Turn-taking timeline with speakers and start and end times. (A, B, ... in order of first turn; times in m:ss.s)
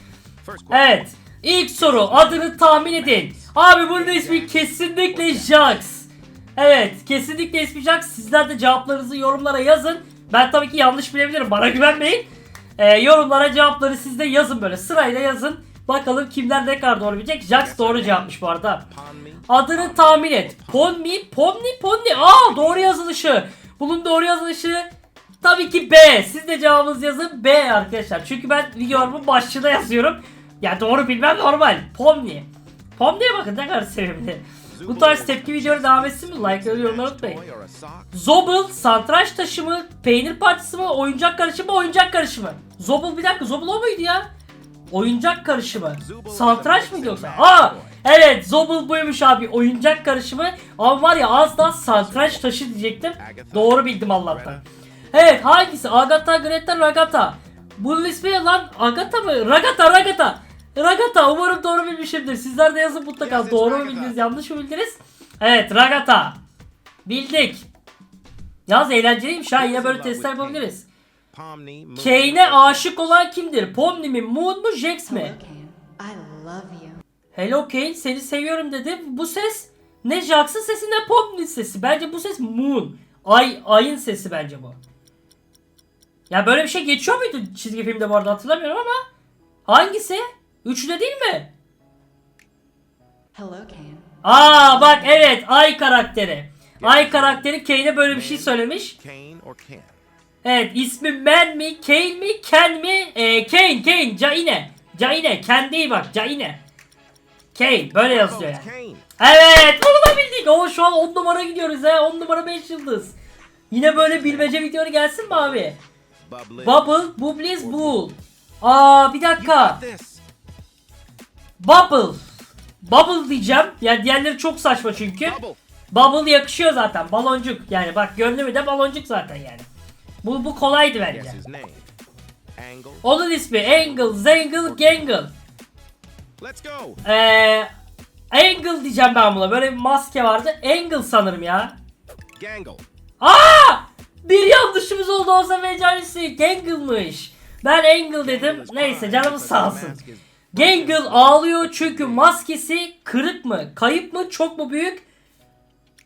0:00.4-0:01.0 A
0:00.7-0:12.3 B
0:01.8-0:05.7 A
0:12.8-0:18.8 B
0:17.6-0:20.9 A
0:19.5-0:24.9 B
0:22.2-0:22.9 A
0:25.4-0:37.4 B
0:34.7-0:38.1 A
0:38.1-0:44.3 B
0:44.9-0:54.6 B
0:46.0-0:48.0 A
0:51.8-0:52.4 A
0:53.2-0:54.7 A
0:55.1-1:06.4 B
1:03.2-1:04.2 A
1:07.0-1:07.7 B
1:08.7-1:10.9 B
1:09.6-1:10.7 A
1:11.3-1:13.2 A
1:12.0-1:15.4 B
1:15.1-1:17.0 C
1:17.3-1:24.8 B
1:26.3-1:29.0 B
1:29.7-1:31.5 B
1:33.3-1:35.3 C
1:34.2-1:38.9 B
1:36.8-1:37.5 A
1:38.1-1:39.9 A
1:40.4-1:46.6 B
1:47.5-1:48.7 B
1:48.1-1:49.1 A
1:49.2-1:53.2 B
1:53.7-1:55.8 B
1:54.0-1:54.5 A
1:56.3-1:57.0 A
1:56.6-1:59.8 B
1:57.6-1:58.0 A
1:59.4-2:00.2 A
2:01.6-2:05.4 B
2:05.2-2:05.6 A
2:05.9-2:09.6 B
2:10.2-2:11.4 B
2:11.1-2:11.8 A
2:12.6-2:13.1 A
2:13.0-2:15.3 B
2:13.7-2:15.3 A
2:16.4-2:17.0 A
2:17.0-2:17.7 B
2:18.3-2:21.8 B
2:22.4-2:22.8 A
2:23.2-2:30.0 B
2:28.2-2:32.3 A
2:30.5-2:35.0 B